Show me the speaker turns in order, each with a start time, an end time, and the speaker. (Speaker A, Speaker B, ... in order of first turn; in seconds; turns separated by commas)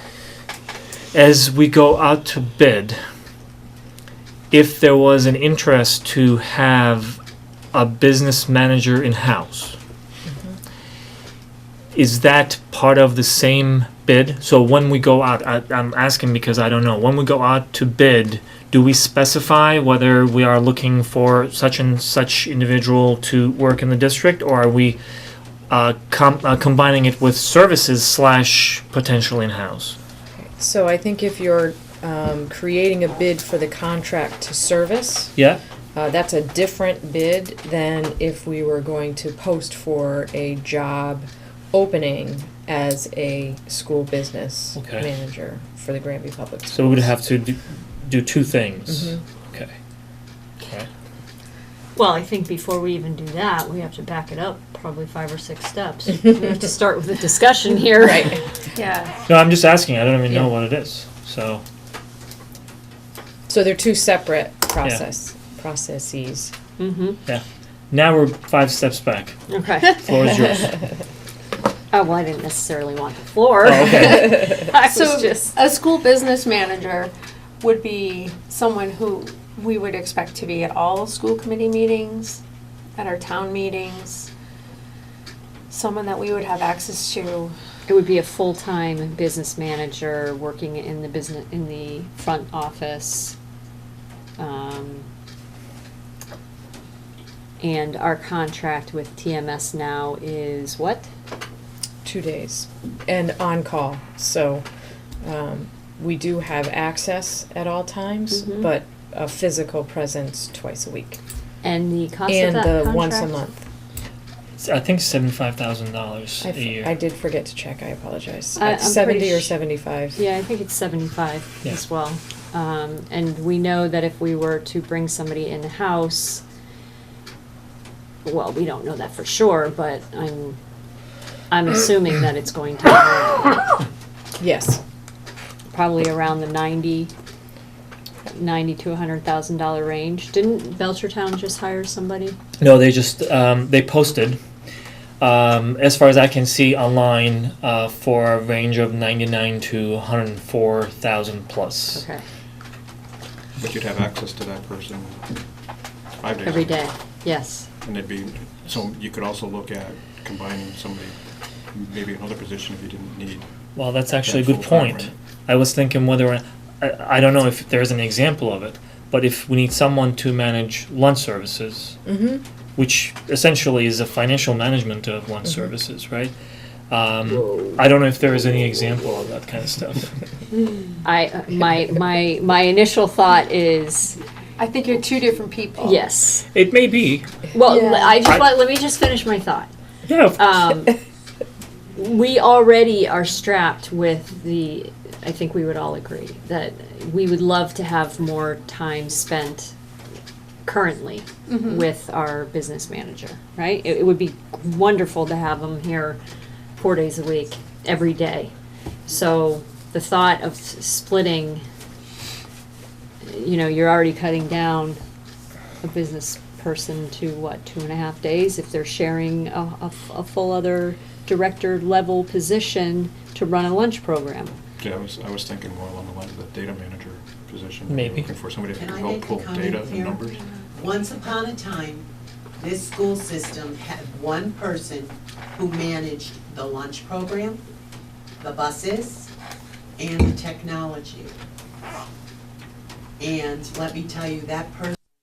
Speaker A: 1.1-3.0, Speaker A: 4.5-7.2, Speaker A: 7.7-9.8, Speaker A: 11.9-25.0, Speaker A: 25.7-30.0, Speaker B: 30.4-35.4, Speaker A: 35.4-35.6, Speaker B: 36.0-47.1, Speaker A: 44.8-45.1, Speaker A: 46.7-49.7, Speaker B: 48.9-49.2, Speaker C: 52.0-58.5, Speaker B: 58.0-58.4, Speaker D: 58.8-59.1, Speaker A: 59.3-61.6, Speaker B: 63.5-66.5, Speaker C: 66.8-67.2, Speaker A: 67.3-70.8, Speaker C: 69.5-70.1, Speaker C: 71.9-75.6, Speaker A: 73.6-74.5, Speaker D: 74.9-82.4, Speaker D: 83.0-84.3, Speaker D: 85.7-87.5, Speaker C: 87.9-93.4, Speaker C: 94.4-95.1, Speaker C: 97.6-101.1, Speaker B: 102.0-104.7, Speaker B: 105.2-111.2, Speaker C: 108.3-108.7, Speaker C: 111.6-113.3, Speaker B: 112.3-113.7, Speaker A: 114.6-116.9, Speaker B: 116.4-120.2, Speaker C: 118.6-119.6, Speaker C: 120.1-126.4, Speaker C: 128.2-130.6, Speaker C: 131.5-133.8, Speaker B: 134.4-134.8, Speaker C: 135.7-137.1, Speaker C: 138.3-142.4, Speaker A: 142.6-144.4, Speaker A: 145.2-152.1, Speaker C: 151.9-152.2, Speaker E: 153.6-155.2, Speaker E: 156.2-156.9, Speaker C: 156.4-157.7, Speaker E: 157.8-161.2, Speaker E: 161.7-163.5, Speaker A: 163.8-172.0, Speaker E: 164.2-165.1, Speaker B: 172.1-172.4, Speaker A: 172.8-176.3, Speaker A: 176.9-180.1, Speaker C: 181.0-184.2, Speaker D: 184.6-186.1, Speaker C: 185.8-186.4, Speaker A: 186.5-187.3, Speaker C: 187.5-189.7, Speaker D: 187.7-188.4, Speaker A: 190.1-190.6, Speaker C: 190.4-191.0, Speaker C: 191.9-199.8, Speaker C: 200.7-206.2, Speaker D: 201.5-201.8, Speaker C: 206.8-208.5, Speaker C: 209.1-211.6, Speaker C: 213.2-215.0, Speaker C: 215.8-224.6, Speaker E: 224.8-230.4, Speaker A: 227.9-228.3, Speaker F: 228.8-232.1, Speaker F: 232.6-237.6, Speaker F: 238.4-239.3, Speaker F: 240.0-241.3, Speaker F: 243.2-245.0